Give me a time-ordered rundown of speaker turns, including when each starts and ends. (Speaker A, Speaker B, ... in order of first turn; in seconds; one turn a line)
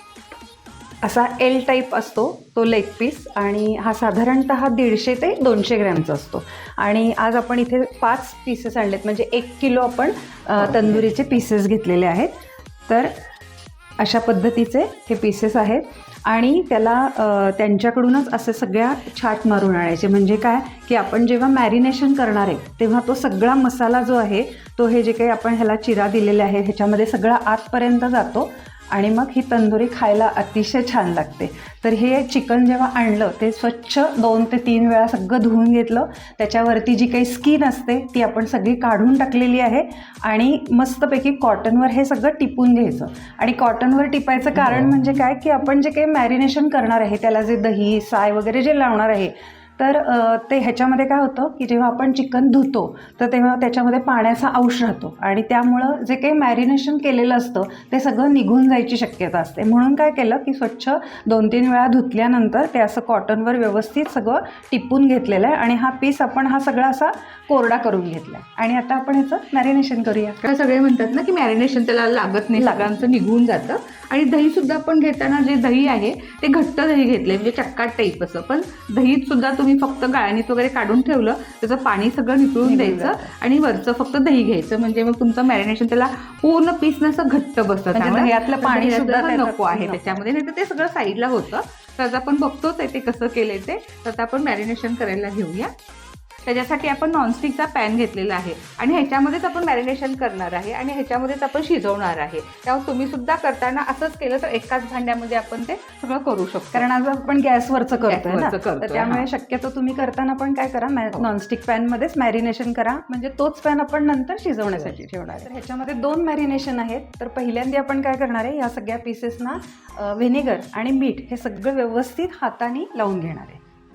Speaker A: 1.0-12.3
Speaker B: 10.6-11.2
Speaker A: 12.9-13.1
Speaker A: 14.0-70.4
Speaker B: 70.4-95.7
Speaker A: 72.5-73.0
Speaker A: 82.6-83.3
Speaker A: 87.9-90.2
Speaker B: 96.5-106.9
Speaker A: 106.7-123.6
Speaker B: 108.1-109.2